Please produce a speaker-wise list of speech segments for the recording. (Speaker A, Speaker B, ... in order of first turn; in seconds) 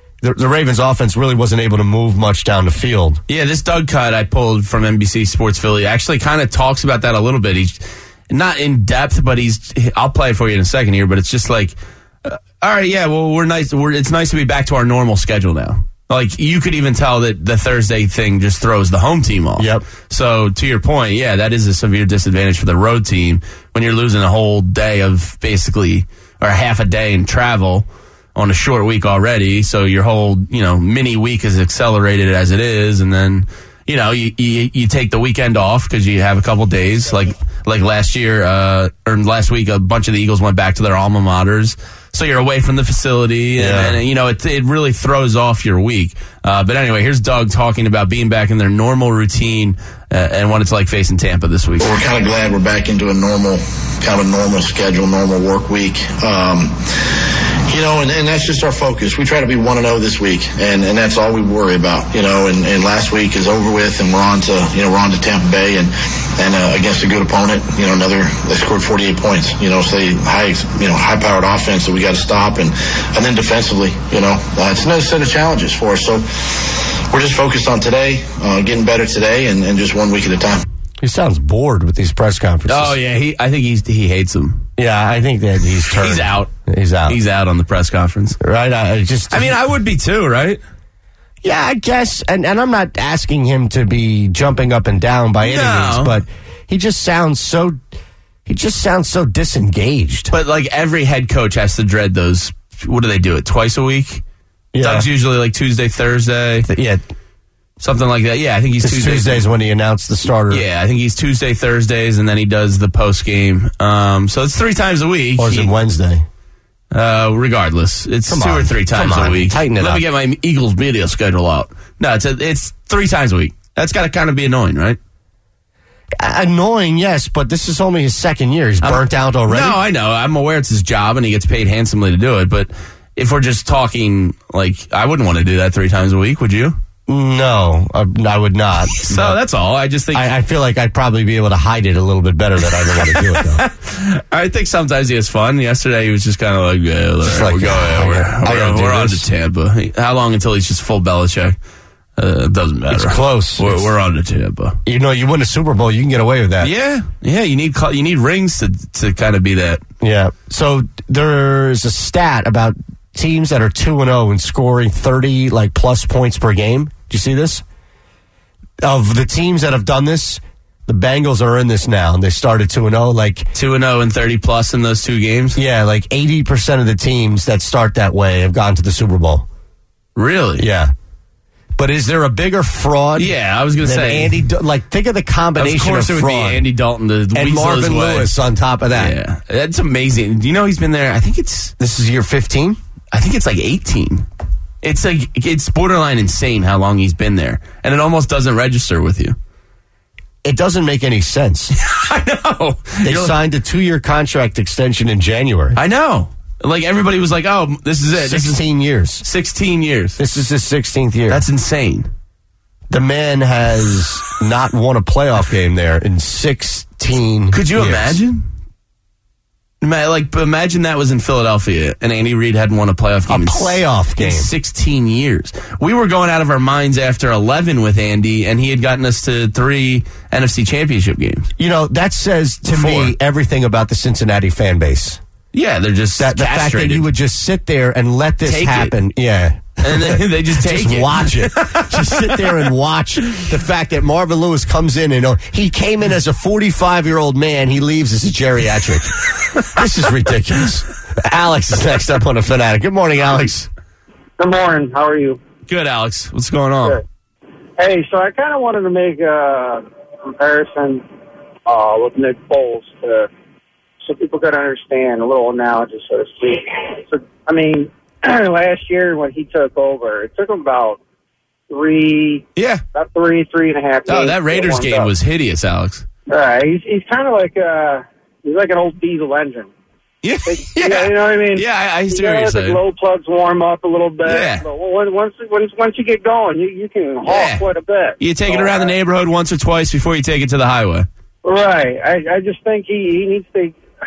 Speaker A: 0.2-3.2, 19.6-19.9, 43.6-44.0, 81.0-83.0, 84.8-87.2, 88.4-89.6, 91.4-97.8, 98.5-100.3, 104.7-105.1, 106.7-107.0, 108.8-110.6, 115.4-116.3, 118.3-120.0, 126.2-129.8, 137.1-139.4, 140.1-143.6, 147.2-149.2, 152.9-153.8, 154.8-156.7, 160.0-167.6, 168.8-173.5, 175.6-179.5, 180.6-180.9, 181.8-183.3, 183.8-186.7, 187.3-189.1, 191.8-192.8, 200.4-201.7, 203.0-205.8, 208.2-209.2, 210.2-211.4, 212.9-218.2, 223.3-224.5, 231.6-235.2, 236.2-253.7
Speaker B: 3.3-51.9, 82.7-84.7, 86.0-86.5, 87.1-88.4, 89.3-90.6, 95.4-96.2, 100.3-104.2, 104.8-106.7, 107.8-109.5, 110.5-115.7, 116.9-125.0, 128.8-136.8, 139.1-140.3, 143.0-151.6, 152.2-154.8, 156.6-159.8, 173.5-175.6, 180.2-180.7, 183.2-184.4, 185.6-188.3, 188.9-191.7, 193.1-194.3, 194.8-199.4, 201.8-203.4, 205.8-208.6, 209.2-210.2, 211.3-212.1, 217.5-218.4, 219.8-231.5, 232.7-233.1, 235.5-237.1, 238.5-238.9, 239.8-242.6, 255.7-257.0, 272.6-272.8, 274.1-276.1, 280.2-282.8, 284.3-284.6, 287.3-287.6, 288.2-291.1
Speaker C: 51.8-56.8, 57.7-80.6
Speaker D: 254.4-255.4, 257.8-261.0, 261.7-263.3, 264.0-271.0, 271.7-275.1, 276.3-279.7, 280.5-288.9, 291.4-293.8